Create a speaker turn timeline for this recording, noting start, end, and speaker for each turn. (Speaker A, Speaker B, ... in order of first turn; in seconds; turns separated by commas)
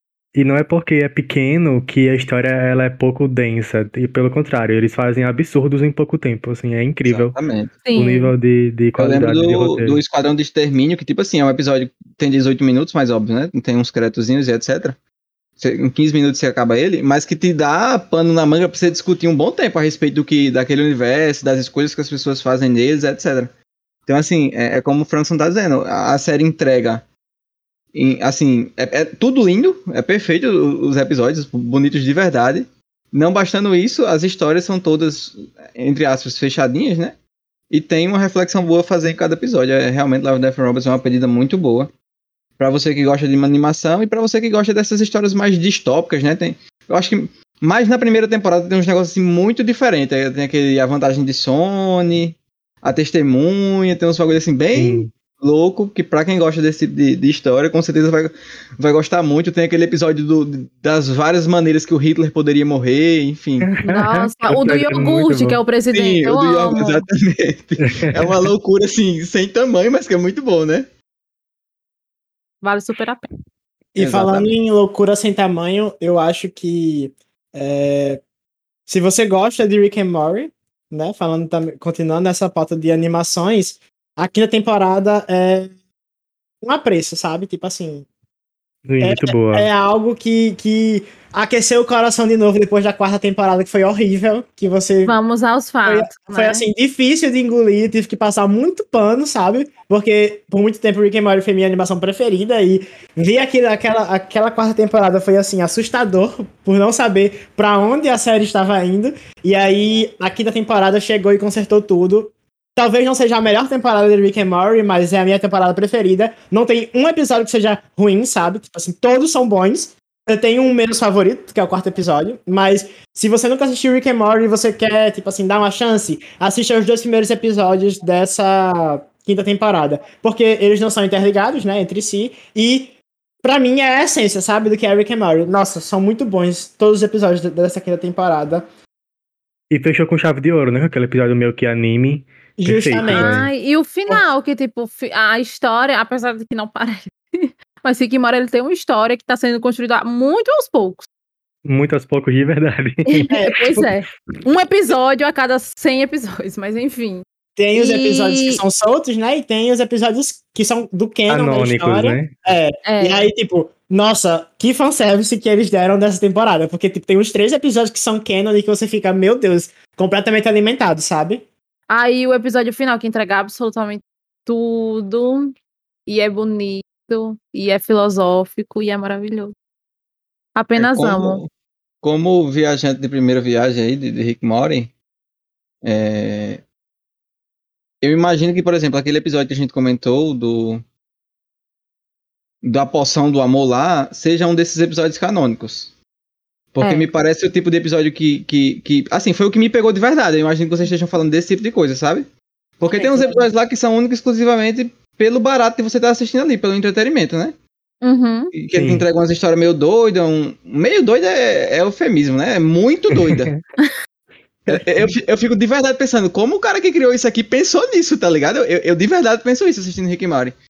Speaker A: 0.3-7.3, Speaker B: 7.0-7.8, Speaker C: 7.8-8.3, Speaker A: 7.9-10.0, Speaker B: 9.0-15.0, Speaker B: 15.6-23.5, Speaker B: 24.1-27.1, Speaker B: 27.9-37.2, Speaker B: 37.7-41.9, Speaker B: 42.6-63.7, Speaker A: 54.8-55.1, Speaker A: 63.6-65.6, Speaker C: 63.8-67.0, Speaker B: 65.9-70.9, Speaker A: 67.8-68.5, Speaker C: 72.6-73.3, Speaker D: 73.9-78.2, Speaker B: 74.0-74.5, Speaker D: 78.9-85.7, Speaker D: 86.6-88.1, Speaker A: 88.8-89.7, Speaker D: 89.0-95.2, Speaker C: 95.0-96.6, Speaker D: 95.8-138.6, Speaker A: 139.7-143.5, Speaker D: 142.6-143.3, Speaker C: 143.0-151.1, Speaker A: 151.6-153.4, Speaker C: 153.1-158.6, Speaker D: 153.3-153.8, Speaker D: 157.6-171.4, Speaker A: 161.3-162.3, Speaker C: 162.8-163.2, Speaker C: 171.9-175.5, Speaker C: 176.1-179.5, Speaker C: 180.6-181.4, Speaker B: 180.8-181.5, Speaker B: 182.0-184.9, Speaker B: 185.8-186.6, Speaker B: 188.0-190.8, Speaker B: 192.6-195.9, Speaker B: 196.7-202.3, Speaker C: 196.8-197.1, Speaker B: 202.8-207.6, Speaker C: 202.9-203.4, Speaker C: 208.0-208.5, Speaker B: 208.5-213.5, Speaker A: 208.7-209.1, Speaker A: 213.1-213.6, Speaker A: 214.7-215.1, Speaker B: 214.7-220.6